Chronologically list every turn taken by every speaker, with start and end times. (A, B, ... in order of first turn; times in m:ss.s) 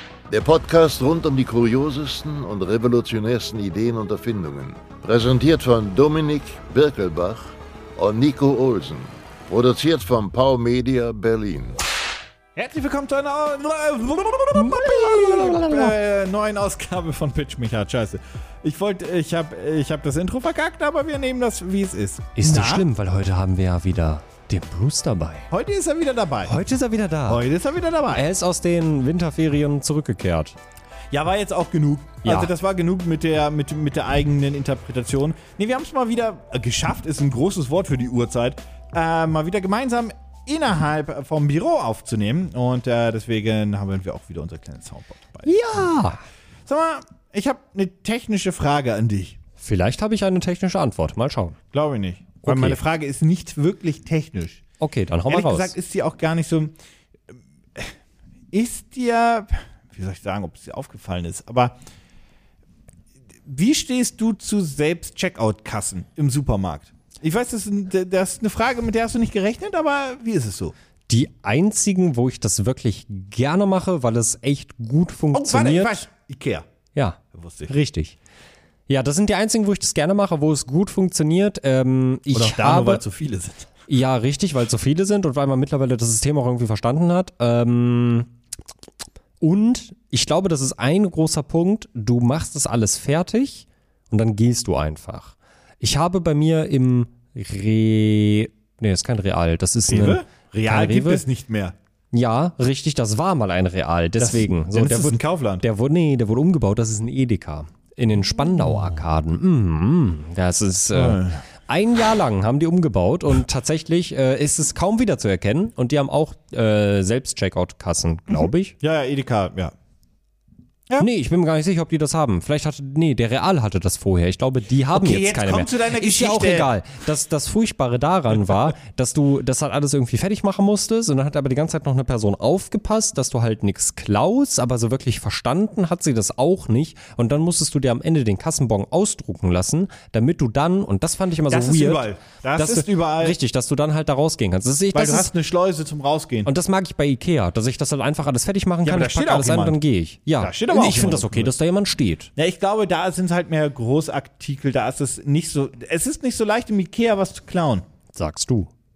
0:00.3-0:11.8 A
0:12.6-0:22.8 B
0:14.5-0:15.9 C
0:22.4-0:25.5 C
0:25.5-0:26.6 B
0:26.4-0:27.4 C
0:27.3-0:28.2 B
0:28.1-0:30.6 C
0:31.1-0:45.5 B
0:32.2-0:32.5 C
0:45.4-0:46.2 C
0:46.7-0:49.4 B
0:49.6-0:51.6 C
0:51.7-0:54.6 B
0:52.4-0:52.8 C
0:54.8-0:55.7 C
0:55.3-0:56.7 B
0:58.5-1:01.8 B
1:03.4-1:10.7 B
1:11.1-1:16.0 C
1:15.3-1:16.6 B
1:16.9-1:18.2 C
1:17.3-1:17.7 B
1:18.9-1:23.0 C
1:22.3-1:23.7 B
1:23.9-1:28.3 C
1:29.4-1:41.2 C
1:39.9-1:41.7 B
1:42.1-1:58.7 C
1:44.2-1:45.6 B
1:50.9-1:51.4 B
1:58.8-1:59.7 B
2:01.0-2:25.3 C
2:04.9-2:06.7 B
2:21.5-2:23.4 B
2:24.9-2:26.5 B
2:26.4-2:32.3 C
2:28.8-2:29.8 B
2:30.4-2:31.5 B
2:32.4-2:37.8 B
2:38.1-2:38.7 C